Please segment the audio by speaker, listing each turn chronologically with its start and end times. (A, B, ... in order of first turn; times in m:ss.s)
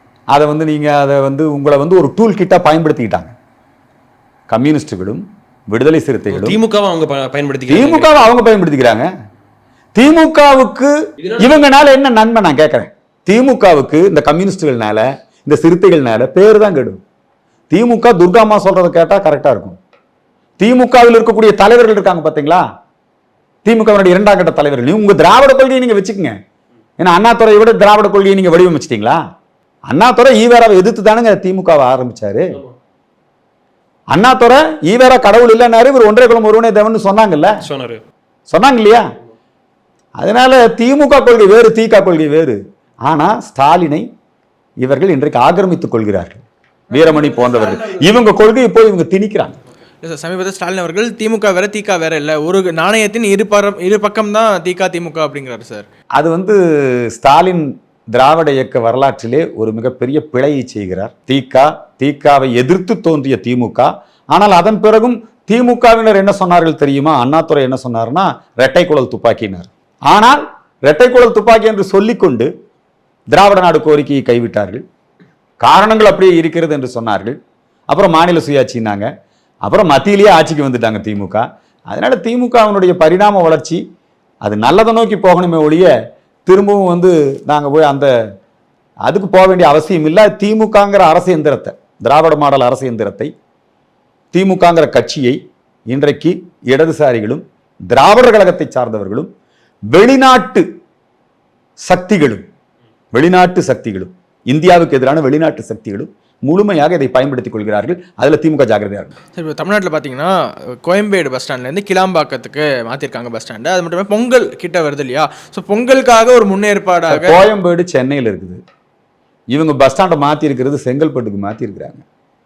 0:00.3-0:03.3 A
0:04.5-0:06.6 A
0:06.3-0:08.3 B
0:07.7-0:09.1 A
0:10.0-0:17.0 A
0:11.2-0:11.5 B
0:17.7-0:19.8 A
0:20.6-0:22.6 A
0:23.6-0:26.4 A
0:27.0-0:29.2 A
0:29.9-0:32.6 A
0:34.1-0:37.6 A
0:37.6-0:38.0 B
0:38.5-0:39.1 A
0:40.2-0:44.1 A
0:44.8-0:49.6 A
0:46.9-0:48.2 B
0:50.0-0:55.8 C
0:56.2-1:12.5 A
1:13.3-1:14.8 A
1:15.6-1:17.4 A
1:17.9-1:19.1 A
1:19.6-1:23.8 A
1:24.4-1:25.9 A
1:26.4-1:28.1 A
1:29.1-1:33.3 A
1:34.3-1:39.3 A
1:39.9-1:40.6 A
1:41.8-1:42.4 A
1:43.1-1:49.1 A
1:49.3-1:57.4 C
1:57.1-1:58.6 A
1:59.5-2:02.0 A